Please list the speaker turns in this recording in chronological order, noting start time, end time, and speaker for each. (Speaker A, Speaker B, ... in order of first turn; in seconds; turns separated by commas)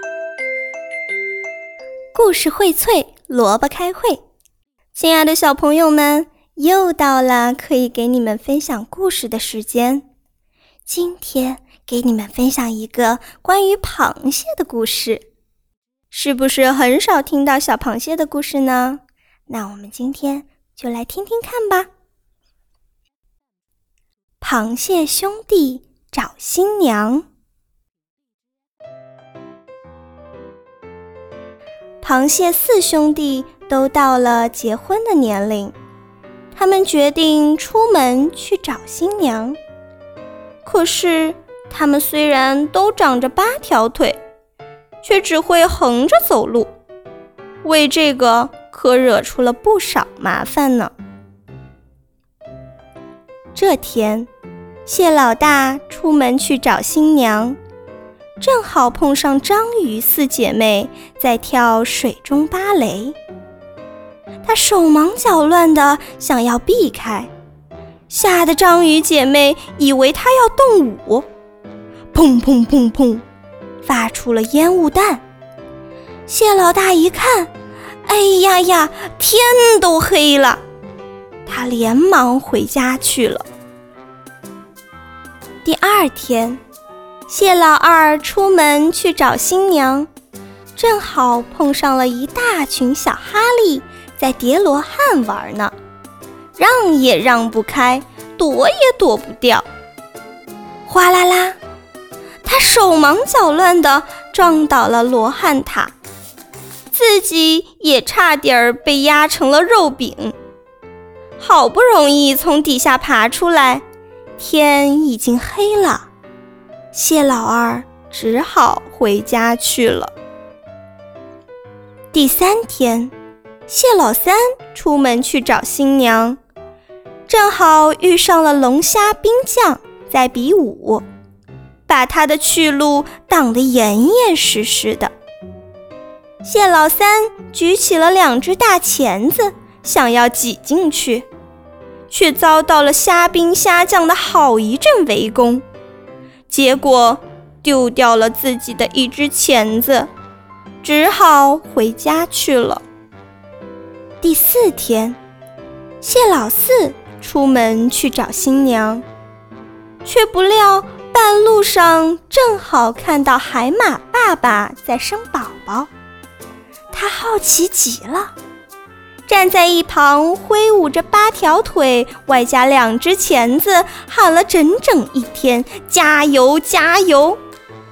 Speaker A: 2.1-4.2, Speaker A: 4.9-10.1, Speaker A: 10.9-15.3, Speaker A: 16.1-21.9, Speaker A: 24.4-27.3, Speaker A: 32.0-35.8, Speaker A: 36.5-39.6, Speaker A: 40.6-44.2, Speaker A: 45.0-46.7, Speaker A: 47.6-50.9, Speaker A: 53.5-54.3, Speaker A: 54.9-57.6, Speaker A: 58.4-63.2, Speaker A: 64.4-67.3, Speaker A: 68.1-71.3, Speaker A: 72.1-73.2, Speaker A: 73.8-75.2, Speaker A: 76.3-77.5, Speaker A: 78.0-80.6, Speaker A: 81.5-83.5, Speaker A: 85.6-86.6, Speaker A: 87.3-90.1, Speaker A: 90.8-95.7, Speaker A: 96.6-99.7, Speaker A: 100.9-101.6, Speaker A: 102.4-105.9, Speaker A: 106.9-110.4, Speaker A: 111.4-113.8, Speaker A: 114.4-116.1, Speaker A: 116.9-120.1, Speaker A: 122.1-123.1, Speaker A: 123.7-126.4, Speaker A: 127.3-131.1, Speaker A: 131.9-135.1, Speaker A: 136.4-141.3, Speaker A: 142.1-145.7, Speaker A: 146.5-150.1, Speaker A: 150.8-152.8, Speaker A: 154.2-155.2, Speaker A: 156.0-159.1, Speaker A: 160.0-165.9, Speaker A: 166.9-168.3, Speaker A: 169.3-177.4